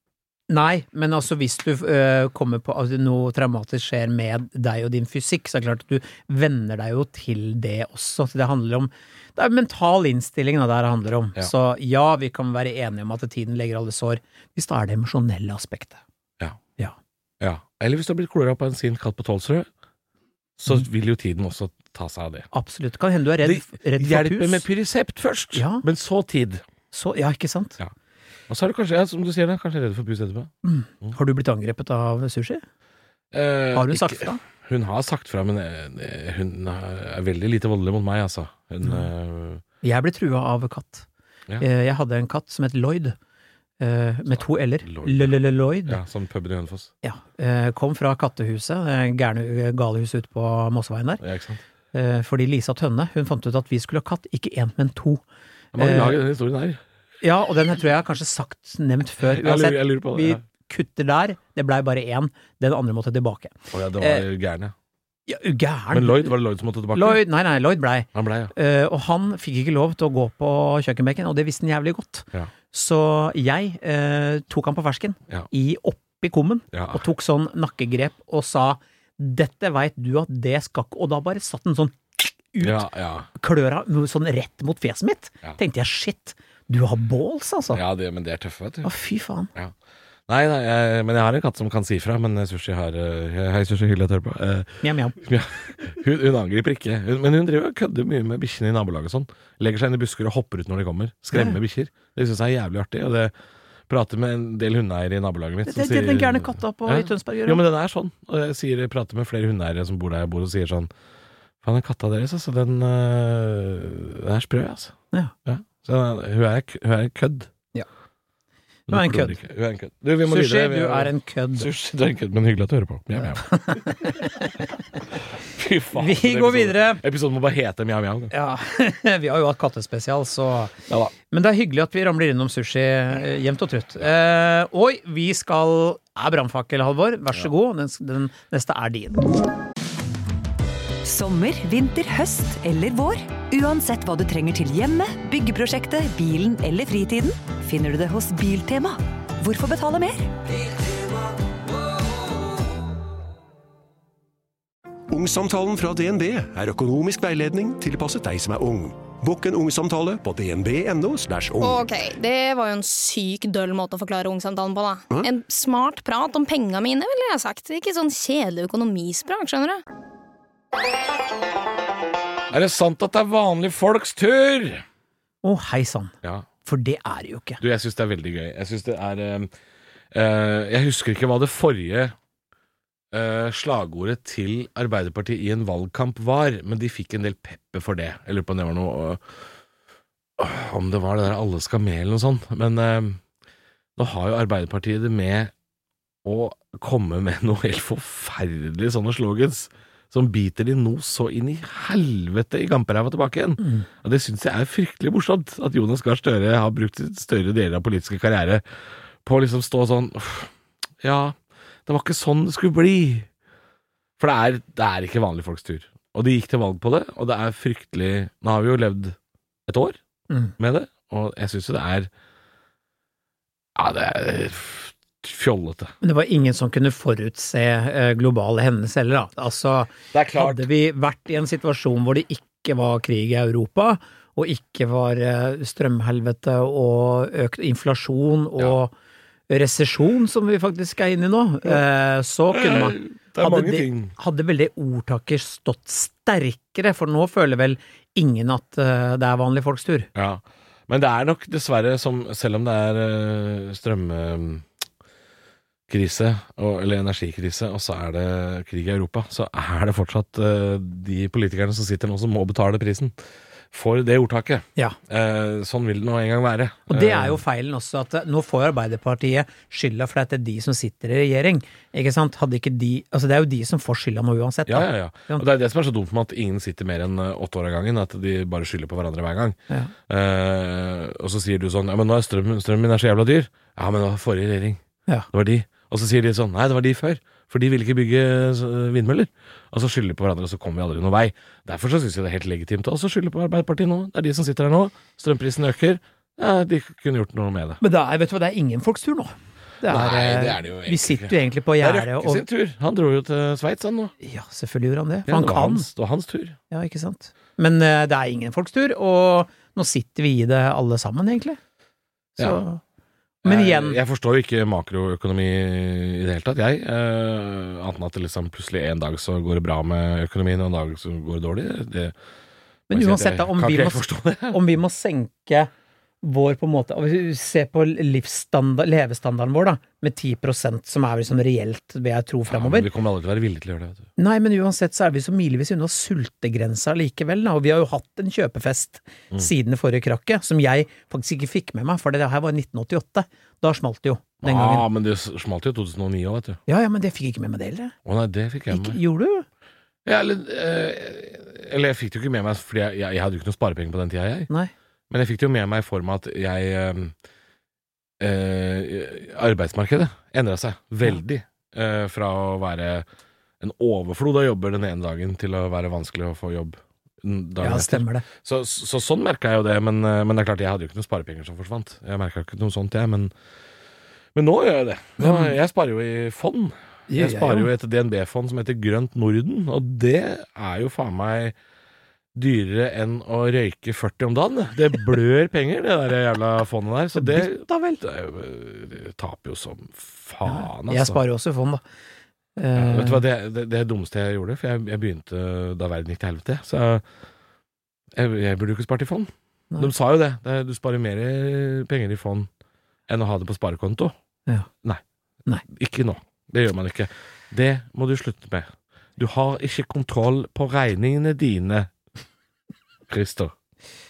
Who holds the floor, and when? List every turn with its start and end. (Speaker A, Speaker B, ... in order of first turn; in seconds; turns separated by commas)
Speaker A: 0.5-16.0, Speaker B: 17.4-19.7, Speaker B: 20.6-22.5, Speaker A: 22.5-24.6, Speaker B: 23.4-26.6, Speaker A: 25.5-25.8, Speaker A: 26.9-27.8, Speaker B: 28.5-31.2, Speaker A: 30.6-32.6, Speaker B: 33.3-39.6, Speaker A: 33.8-34.4, Speaker A: 38.8-39.1, Speaker A: 39.8-41.1, Speaker A: 41.6-43.2, Speaker A: 43.8-46.0, Speaker B: 44.3-46.9, Speaker A: 47.0-51.2, Speaker B: 51.2-51.6, Speaker A: 51.9-55.2, Speaker B: 55.7-56.8, Speaker A: 55.8-56.2, Speaker A: 57.2-64.3, Speaker B: 59.2-60.4, Speaker B: 63.7-64.7, Speaker A: 65.3-66.3, Speaker B: 65.9-67.2, Speaker A: 66.9-87.8, Speaker B: 68.1-68.5, Speaker B: 76.7-77.0, Speaker B: 82.6-83.3, Speaker B: 87.7-88.9, Speaker A: 88.8-89.5, Speaker B: 90.3-103.3, Speaker A: 94.8-95.2, Speaker B: 103.9-110.9, Speaker A: 105.7-107.6, Speaker B: 111.6-115.0, Speaker B: 115.5-117.5, Speaker B: 118.9-124.1, Speaker A: 118.9-119.4, Speaker A: 120.3-121.7, Speaker A: 123.2-124.5, Speaker B: 125.5-128.3, Speaker A: 126.0-127.0, Speaker A: 128.3-130.8, Speaker A: 131.3-139.2, Speaker C: 141.0-150.4, Speaker D: 155.1-162.0, Speaker E: 161.6-169.8, Speaker B: 172.5-174.8, Speaker A: 175.4-176.1, Speaker A: 176.7-177.6, Speaker B: 177.6-179.5, Speaker B: 180.1-182.2, Speaker B: 183.1-189.2, Speaker B: 190.4-193.2, Speaker B: 194.0-195.5, Speaker B: 196.2-208.6, Speaker A: 203.6-203.9, Speaker B: 209.2-213.3, Speaker B: 214.2-220.0, Speaker B: 220.6-222.1, Speaker B: 223.8-225.9, Speaker A: 226.0-238.9, Speaker B: 230.1-230.7, Speaker A: 239.5-250.1, Speaker B: 242.5-244.2, Speaker B: 250.2-254.7, Speaker B: 255.9-263.1, Speaker B: 263.7-267.4, Speaker A: 266.9-275.5, Speaker B: 274.7-297.8, Speaker A: 297.8-302.4, Speaker B: 299.8-304.1, Speaker A: 304.2-305.9, Speaker B: 305.3-306.6, Speaker A: 306.7-311.6, Speaker A: 312.4-312.8, Speaker A: 313.4-314.0, Speaker B: 313.4-322.2, Speaker A: 322.9-325.7, Speaker B: 322.9-324.6, Speaker A: 326.2-332.9, Speaker B: 332.5-334.1, Speaker A: 334.2-344.9, Speaker B: 344.4-346.6, Speaker A: 346.7-347.9, Speaker B: 348.1-349.0, Speaker A: 348.7-349.5, Speaker B: 350.1-354.5, Speaker B: 355.1-357.1, Speaker B: 358.2-363.1, Speaker B: 363.6-373.3, Speaker A: 367.6-368.2, Speaker B: 374.4-381.6, Speaker A: 375.2-375.5, Speaker A: 377.1-377.7, Speaker B: 382.4-391.2, Speaker A: 387.1-388.0, Speaker A: 390.5-391.8, Speaker A: 392.6-393.2, Speaker B: 392.8-397.0, Speaker B: 398.1-402.5, Speaker B: 403.1-404.1, Speaker B: 405.7-411.9, Speaker B: 413.1-413.5